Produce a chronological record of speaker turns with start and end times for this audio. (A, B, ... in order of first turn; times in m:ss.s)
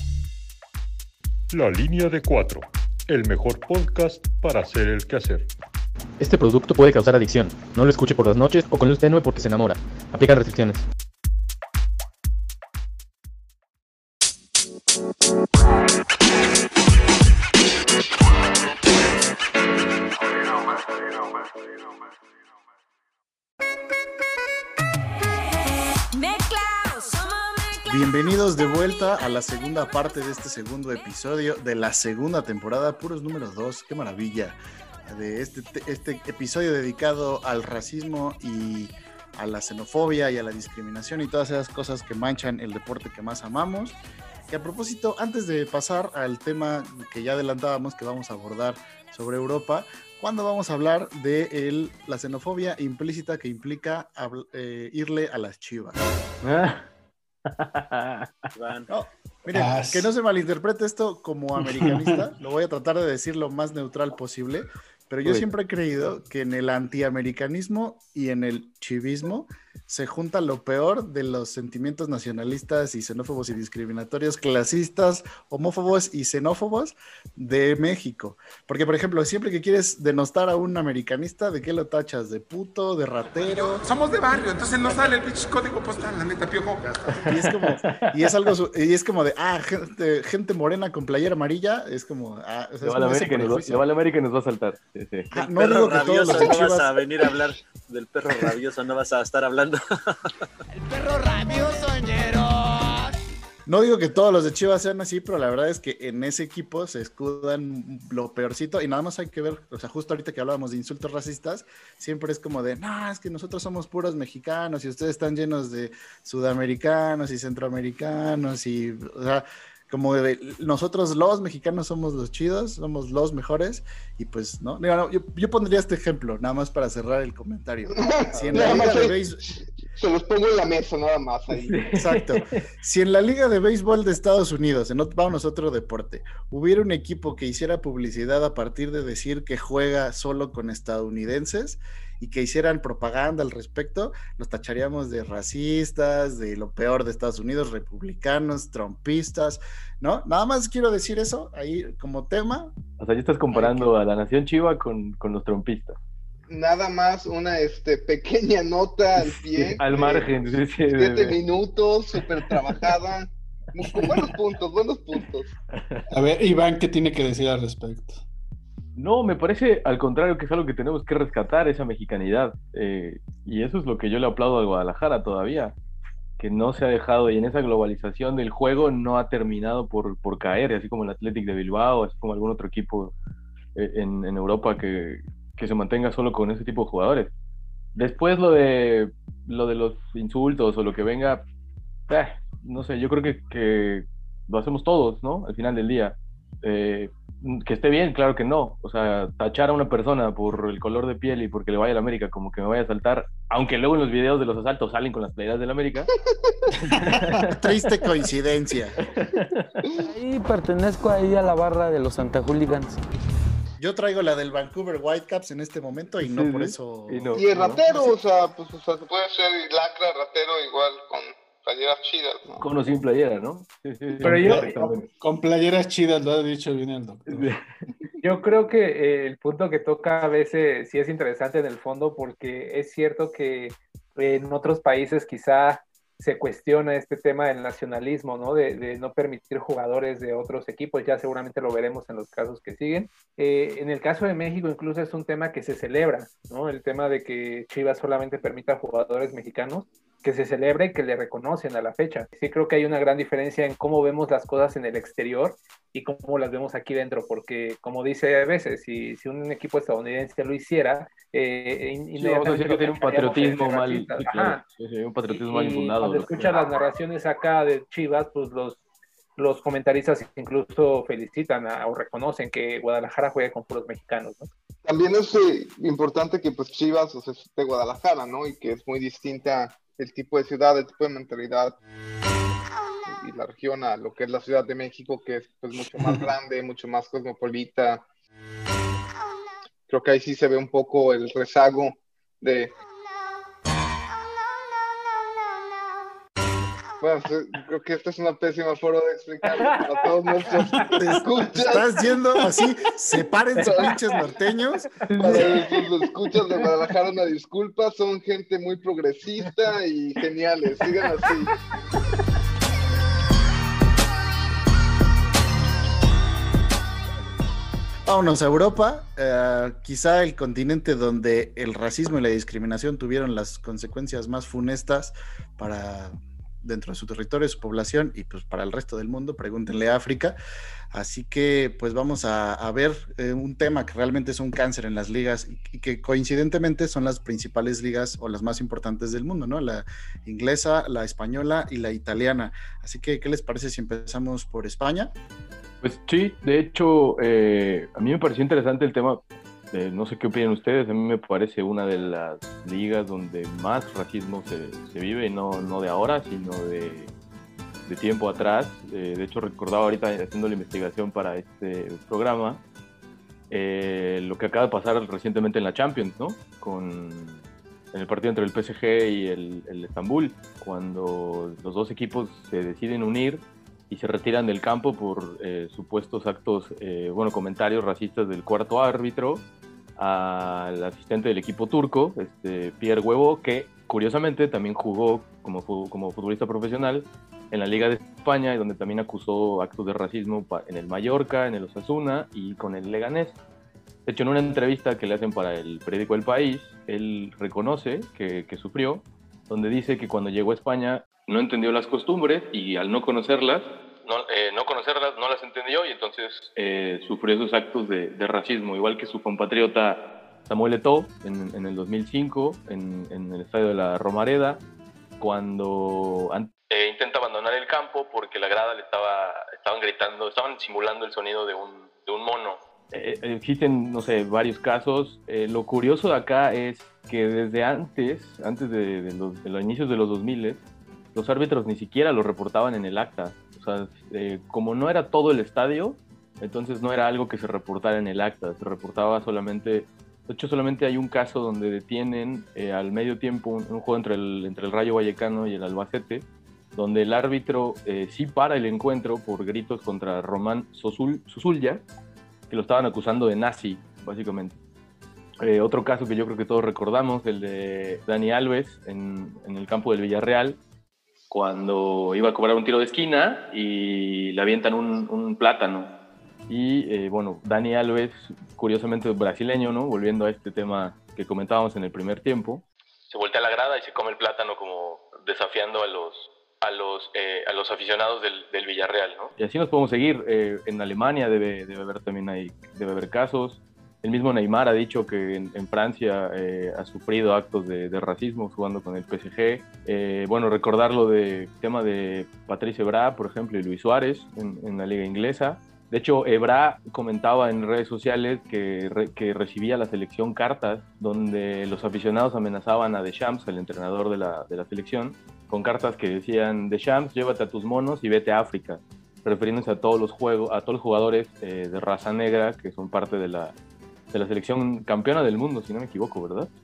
0:01.5-0:05.5 A
0:06.2-0:10.9 B
0:27.9-0:44.0 C
0:44.5-0:56.0 C
0:56.4-0:56.9 D
0:57.4-0:58.5 D
0:58.5-0:58.9 E
0:58.9-1:23.9 C
0:59.5-1:00.1 F
1:01.6-1:02.3 F
1:23.4-1:27.2 G
1:27.2-1:33.8 C
1:27.4-1:28.0 D
1:32.8-1:35.3 D
1:35.3-1:37.0 C
1:35.3-1:39.8 E
1:40.9-1:42.4 C
1:43.6-2:09.4 C
2:07.9-2:11.8 H
2:08.5-2:08.9 D
2:11.5-2:12.4 D
2:11.9-2:32.7 C
2:33.0-2:36.0 D
2:33.5-2:33.9 C
2:36.5-2:45.5 H
2:39.6-2:41.4 D
2:42.5-2:42.8 D
2:43.9-2:44.3 D
2:45.8-2:46.0 D
2:46.1-2:48.2 F
2:49.0-2:55.7 D
2:56.4-3:03.1 D
3:03.8-3:07.3 D
3:07.9-3:11.4 D
3:12.1-3:26.1 D
3:26.8-3:27.2 F
3:26.9-3:27.8 D
3:27.5-3:29.0 C
3:29.2-3:29.7 D
3:30.1-3:33.0 I
3:33.8-3:38.1 C
3:36.2-3:37.9 D
3:37.3-3:42.6 H
3:42.6-3:45.1 D
3:44.2-3:47.5 F
3:44.2-3:44.7 J
3:47.3-3:47.6 D
3:48.2-4:24.6 J
4:22.2-4:26.5 D
4:25.3-4:28.8 J
4:29.4-4:34.5 J
4:34.8-4:41.8 H
4:43.0-4:48.0 H
4:46.0-4:46.3 F
4:49.9-4:52.7 H
4:57.0-5:01.9 H
5:01.0-5:05.5 C
5:03.6-5:04.0 H
5:05.2-5:05.6 D
5:05.2-5:11.5 H
5:18.0-5:30.4 C
5:30.9-5:45.1 C
5:45.8-5:57.1 D
5:57.9-6:02.6 D
6:03.5-6:19.4 D
6:20.0-6:33.4 D
6:34.0-6:54.6 D
6:55.2-7:10.6 D
7:11.1-7:31.8 D
7:32.5-7:34.6 D
7:35.4-7:40.6 D
7:41.3-7:45.9 D
7:46.5-8:33.5 D
8:34.1-8:36.5 D